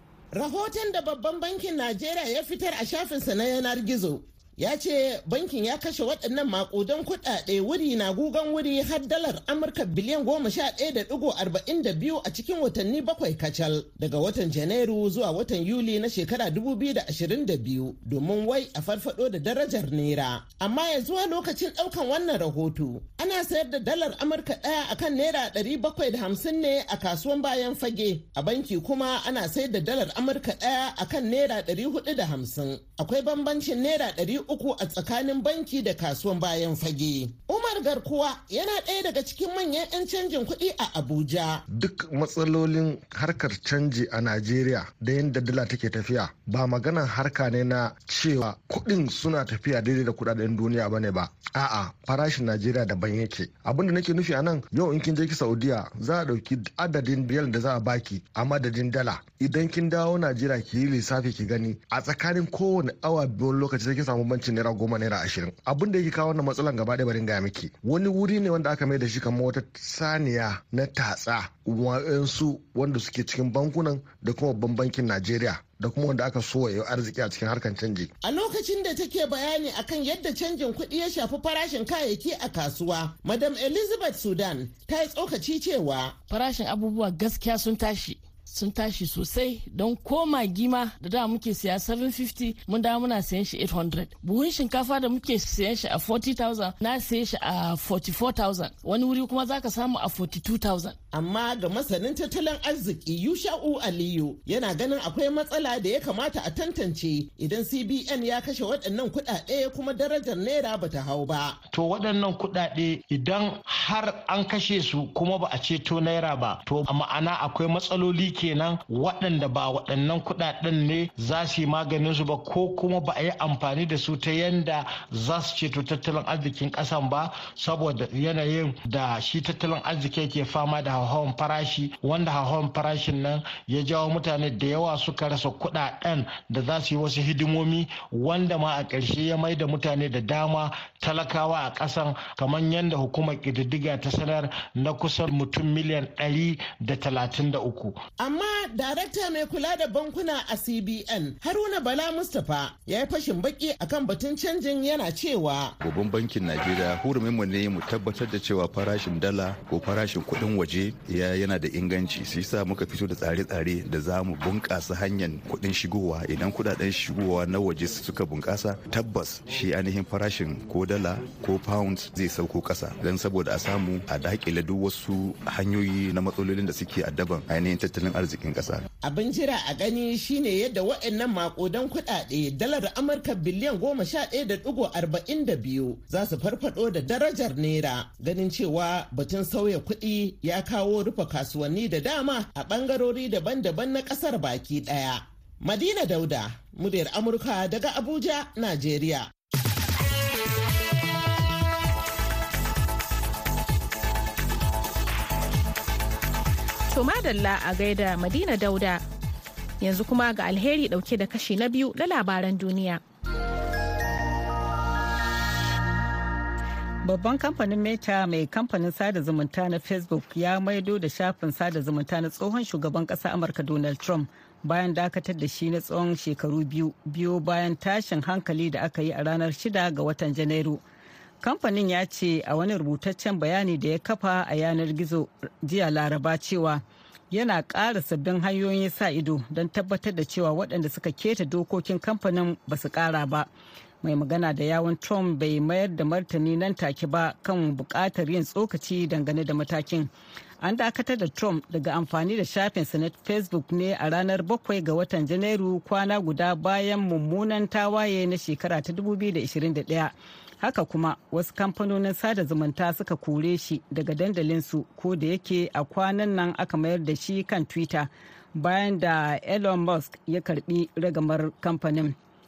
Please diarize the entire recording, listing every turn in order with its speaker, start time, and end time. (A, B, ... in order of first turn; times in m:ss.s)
0:00.3-0:41.6 A
0:41.7-1:18.1 B
1:18.2-1:26.2 A
1:26.3-1:41.0 C
1:41.1-1:51.6 A
1:51.7-2:28.0 D
2:28.2-2:35.8 A
2:35.8-2:58.8 E
2:59.0-3:19.3 A
3:26.9-3:29.0 F
3:29.8-3:33.0 F
3:37.0-3:50.8 G
3:51.4-4:03.5 G
4:04.0-4:10.1 G
4:10.6-4:32.2 G